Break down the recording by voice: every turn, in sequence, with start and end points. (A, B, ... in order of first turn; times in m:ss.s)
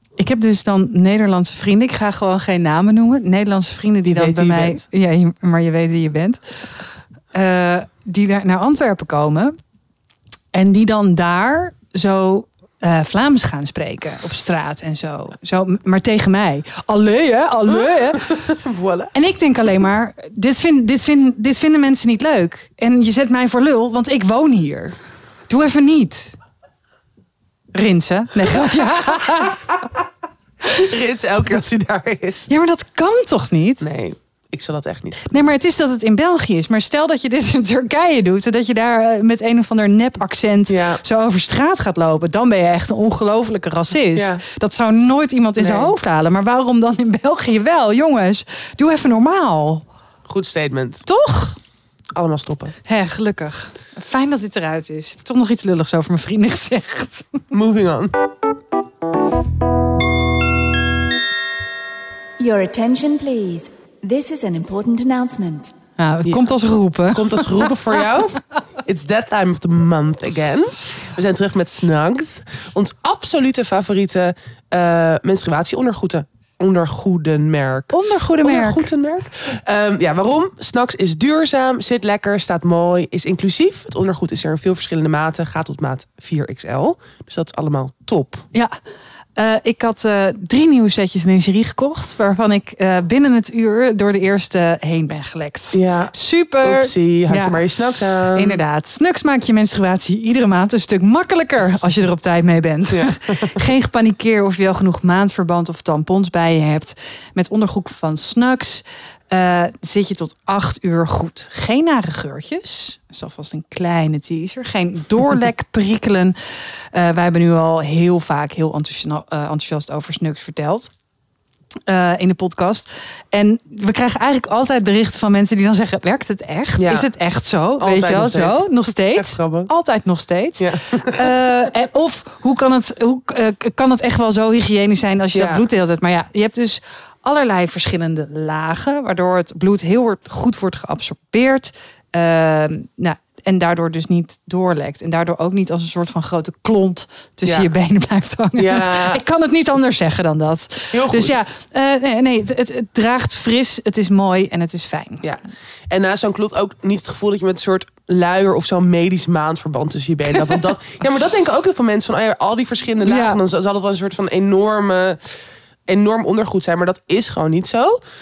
0:00.2-0:06.4 A
0:04.0-0:04.8 B
0:07.3-0:09.5 A
0:10.5-0:18.5 A
0:17.8-0:19.1 B
0:19.1-0:25.0 A
0:25.5-0:26.4 A
0:27.7-0:29.7 A
0:30.7-0:32.5 B
0:32.5-0:33.8 A
0:33.8-0:35.4 B
0:35.3-0:49.8 A
0:40.7-0:41.0 B
0:44.1-0:44.4 B
0:45.6-0:45.9 B
0:50.3-0:51.0 B
0:51.0-0:51.6 A
0:52.1-0:52.8 B
0:52.8-0:57.4 A
0:57.5-0:58.1 B
1:02.4-1:05.7 C
1:06.0-1:07.7 A
1:07.1-1:28.4 B
1:17.9-1:18.9 A
1:29.4-2:00.9 A
1:35.7-1:38.6 B
1:42.9-1:43.6 B
2:01.9-2:35.3 A
2:06.8-2:07.1 B
2:07.8-2:09.7 B
2:10.6-2:11.2 B
2:15.3-2:15.6 B
2:27.4-2:27.7 B
2:28.6-2:29.2 B
2:30.9-2:31.4 B
2:35.2-2:48.0 B
2:43.0-2:43.4 A